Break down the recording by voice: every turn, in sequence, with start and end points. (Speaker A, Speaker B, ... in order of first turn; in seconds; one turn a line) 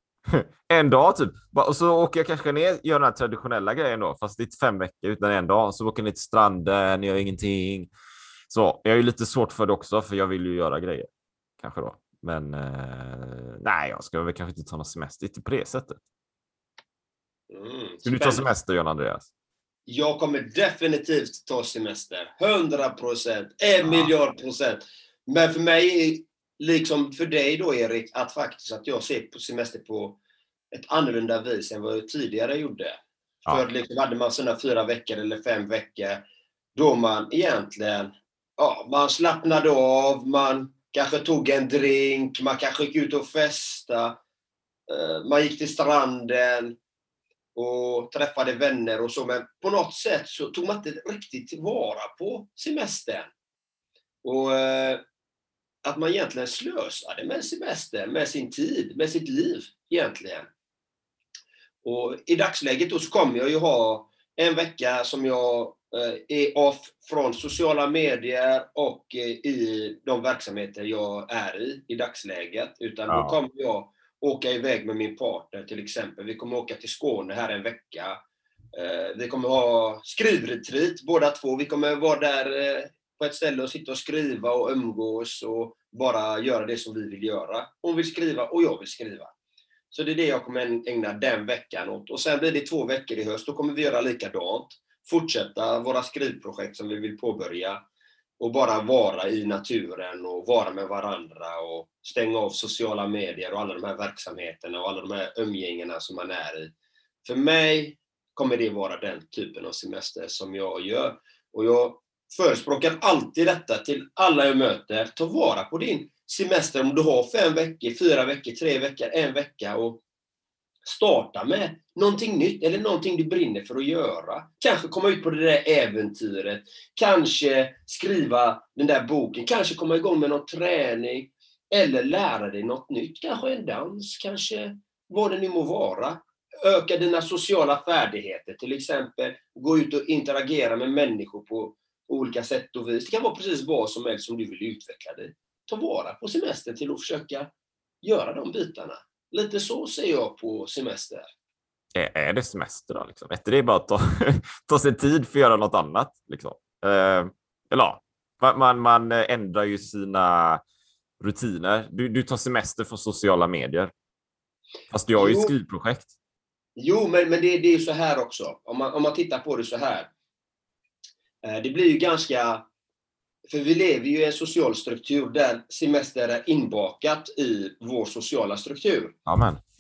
Speaker A: 0.3-7.9
Speaker A: 8.5-11.1
Speaker A: 11.6-16.0
Speaker B: 17.5-18.4
Speaker A: 18.0-19.3
Speaker B: 19.9-30.2
Speaker A: 23.8-24.1
Speaker B: 30.7-36.2
Speaker B: 36.8-44.2
Speaker B: 44.9-46.8
Speaker B: 47.5-53.3
Speaker B: 54.2-55.0
Speaker B: 55.8-60.5
Speaker B: 61.8-78.2
Speaker A: 73.1-73.4
Speaker B: 78.7-89.3
Speaker B: 89.9-97.8
Speaker B: 98.4-106.7
Speaker B: 107.2-120.0
Speaker B: 120.8-147.5
Speaker B: 148.0-151.3
Speaker A: 151.9-160.6
Speaker A: 161.2-163.9
Speaker A: 164.9-166.1
Speaker B: 165.2-165.5
Speaker B: 166.8-170.1
Speaker B: 171.4-172.7
Speaker B: 173.5-179.2
Speaker A: 179.3-179.6